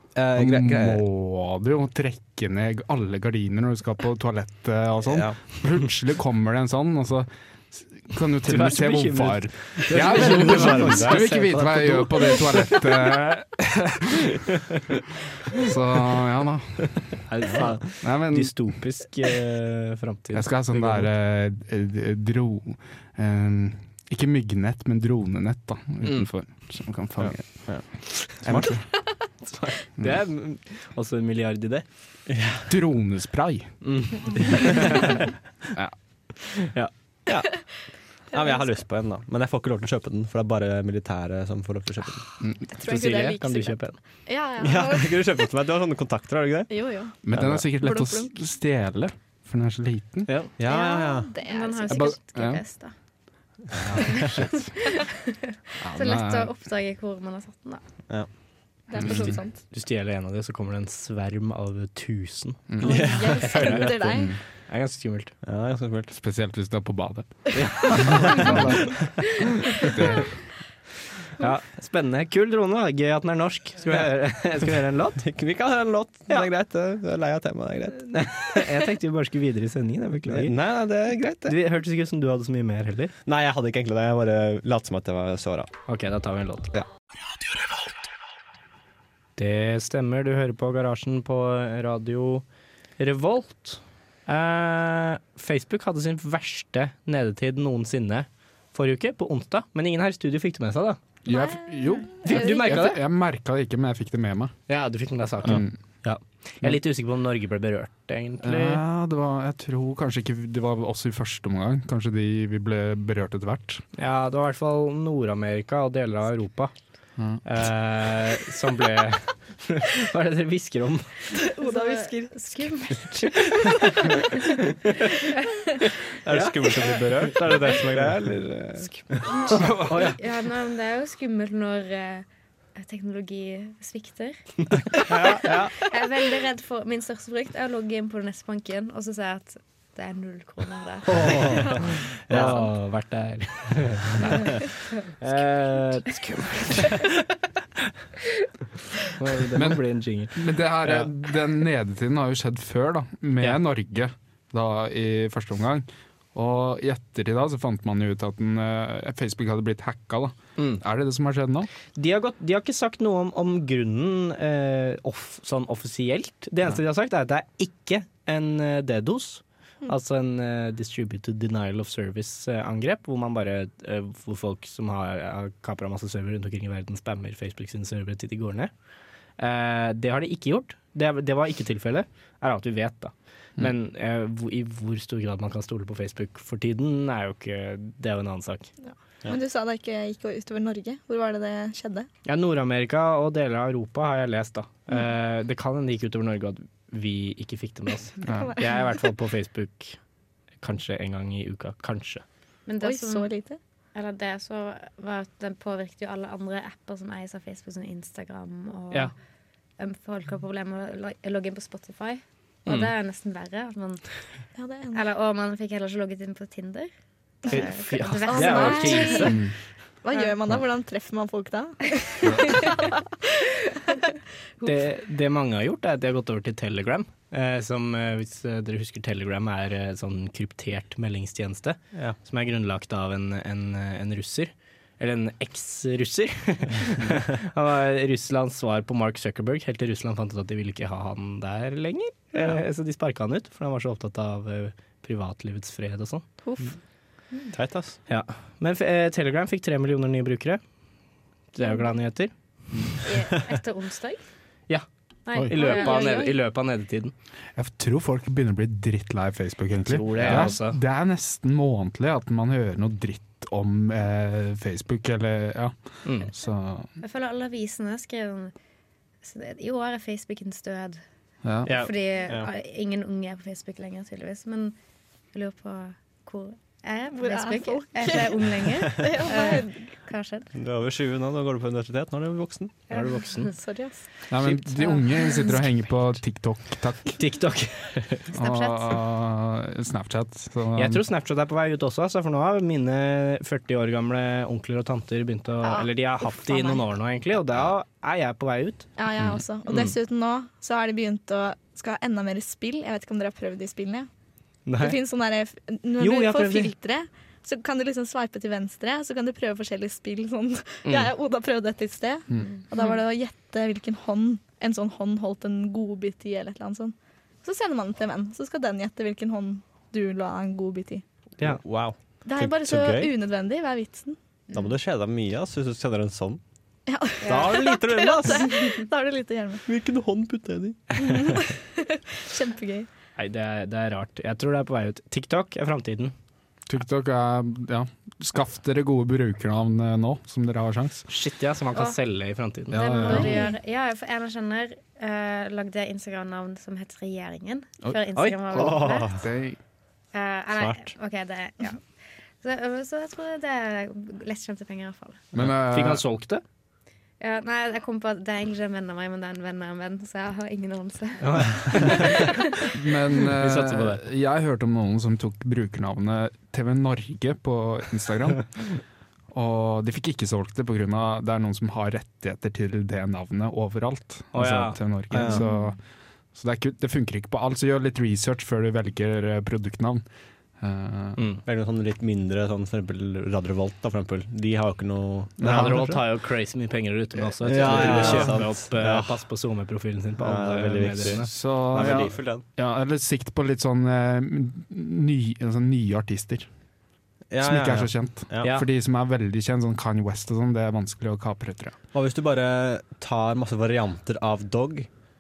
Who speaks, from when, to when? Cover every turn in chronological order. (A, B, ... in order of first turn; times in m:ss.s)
0:00.2-0:01.0 A
0:00.4-0:14.3 B
0:05.0-0:05.4 A
0:08.5-0:13.2 C
0:09.9-0:11.6 A
0:15.5-0:17.2 B
0:17.2-0:21.1 C
0:18.0-0:18.7 B
0:20.3-0:27.7 B
0:26.0-0:26.3 C
0:27.2-0:28.8 A
0:28.4-0:28.9 B
0:29.4-0:31.8 C
0:32.3-0:32.7 A
0:32.7-0:33.8 B
0:33.8-0:35.2 C
0:34.5-0:34.7 A
0:36.5-0:36.9 C
0:37.3-0:37.6 A
0:38.3-0:42.2 A
0:42.4-0:42.7 B
0:42.7-0:45.4 D
0:42.8-0:44.0 C
0:44.6-0:46.7 A
0:46.7-0:48.4 D
0:47.2-0:50.3 B
0:50.3-0:50.5 C
0:50.6-0:51.3 A
0:50.6-0:52.1 D
0:51.4-0:52.9 E
0:51.9-0:52.6 B
0:53.7-0:54.7 B
0:54.0-0:57.8 E
0:55.8-0:56.5 B
0:58.9-0:59.6 D
0:59.0-1:05.4 C
0:59.0-0:59.4 B
1:02.7-1:03.1 B
1:02.8-1:04.4 D
1:02.8-1:03.8 A
1:04.1-1:04.4 B
1:05.4-1:06.1 A
1:06.1-1:08.9 B
1:07.6-1:09.0 C
1:09.8-1:10.4 B
1:11.4-1:15.2 C
1:15.2-1:18.7 A
1:18.1-1:20.6 C
1:20.3-1:21.6 A
1:21.4-1:23.1 C
1:23.3-1:25.7 A
1:25.9-1:26.7 C
1:29.4-1:32.4 C
1:33.0-1:41.0 C
1:41.2-1:44.6 B
1:41.3-1:43.0 D
1:42.2-1:43.0 C
1:44.7-1:48.8 C
1:45.4-1:45.7 B
1:48.4-1:53.8 B
1:54.0-1:56.7 C
1:57.4-2:01.4 C
2:01.4-2:04.1 D
2:01.6-2:04.5 E
2:06.2-2:09.3 A
2:06.2-2:10.2 C
2:09.3-2:14.4 E
2:14.9-2:21.2 E
2:15.1-2:15.7 C
2:15.3-2:15.7 A
2:21.1-2:24.6 C
2:21.2-2:22.6 A
2:25.2-2:27.1 C
2:29.0-2:31.1 C
2:29.6-2:41.7 B
2:40.6-2:40.8 C
2:42.0-2:58.7 C
2:59.4-3:08.7 C
3:08.8-3:12.1 D
3:12.3-3:20.0 C
3:18.2-3:18.6 B
3:18.3-3:18.6 D
3:20.6-3:22.2 C
3:22.7-3:23.3 E
3:22.8-3:23.6 D
3:23.9-3:29.1 E
3:29.8-3:34.3 E
3:34.6-3:35.0 D
3:34.9-3:36.9 E
3:37.4-3:39.4 E
3:37.5-3:39.4 C
3:38.2-3:44.1 D
3:44.6-4:06.3 C
4:02.3-4:02.6 A
4:06.4-4:06.8 D
4:07.5-4:08.0 A
4:08.1-4:10.6 C
4:11.5-4:12.9 C
4:11.6-4:11.9 D
4:13.0-4:14.2 E
4:14.7-4:17.1 C
4:15.3-4:16.1 E
4:15.5-4:16.4 D
4:17.6-4:26.9 B
4:19.8-4:20.8 C
4:20.2-4:20.5 A
4:26.0-4:26.3 C
4:27.0-4:28.5 E
4:29.2-4:31.0 E
4:31.4-4:31.8 B
4:31.6-4:31.9 C
4:31.7-4:34.8 E
4:35.3-4:40.5 E
4:37.2-4:39.9 D
4:40.5-4:42.8 A
4:42.9-4:43.2 E
4:42.9-4:43.5 C
4:43.5-4:44.2 D
4:44.3-4:47.2 B
4:44.4-4:44.7 C
4:45.1-4:45.5 D
4:47.2-4:48.3 C
4:48.3-4:51.0 B
4:48.4-4:49.0 E
4:50.8-4:58.9 C
4:55.6-4:56.8 D
4:59.0-5:04.1 D
4:59.7-4:59.9 C
5:04.7-5:05.0 C
5:04.8-5:21.0 D
5:06.0-5:06.7 C
5:10.8-5:11.1 C
5:21.4-5:23.1 A
5:22.3-5:24.2 D
5:24.5-5:26.4 A
5:26.9-5:29.6 D
5:27.2-5:28.6 A
5:27.2-5:27.5 E
5:29.7-5:31.3 A
5:31.0-5:32.9 D
5:33.2-5:36.1 C
5:36.7-5:41.1 B
5:41.1-5:43.2 C
5:42.7-5:43.3 B
5:42.7-5:49.2 E
5:43.1-5:43.6 D
5:48.2-5:48.4 C
5:48.5-5:49.6 B
5:48.5-5:49.3 A
5:50.1-5:51.9 E
5:52.4-5:55.2 E
5:55.3-5:56.0 B
5:55.4-5:56.4 C
5:57.2-6:02.7 E
6:01.2-6:02.4 C
6:02.7-6:08.8 B
6:03.4-6:04.0 C
6:09.3-6:15.8 B
6:14.3-6:15.3 C
6:15.1-6:15.5 A
6:16.3-6:20.1 B
6:20.6-6:21.2 B
6:21.2-6:21.4 C
6:21.4-6:25.9 A
6:25.4-6:26.0 B
6:25.4-6:31.3 C
6:27.4-6:29.2 A
6:27.6-6:28.4 B
6:30.2-6:32.4 A
6:30.8-6:36.5 B
6:37.3-6:38.5 A
6:37.4-6:41.8 B
6:41.9-6:44.9 A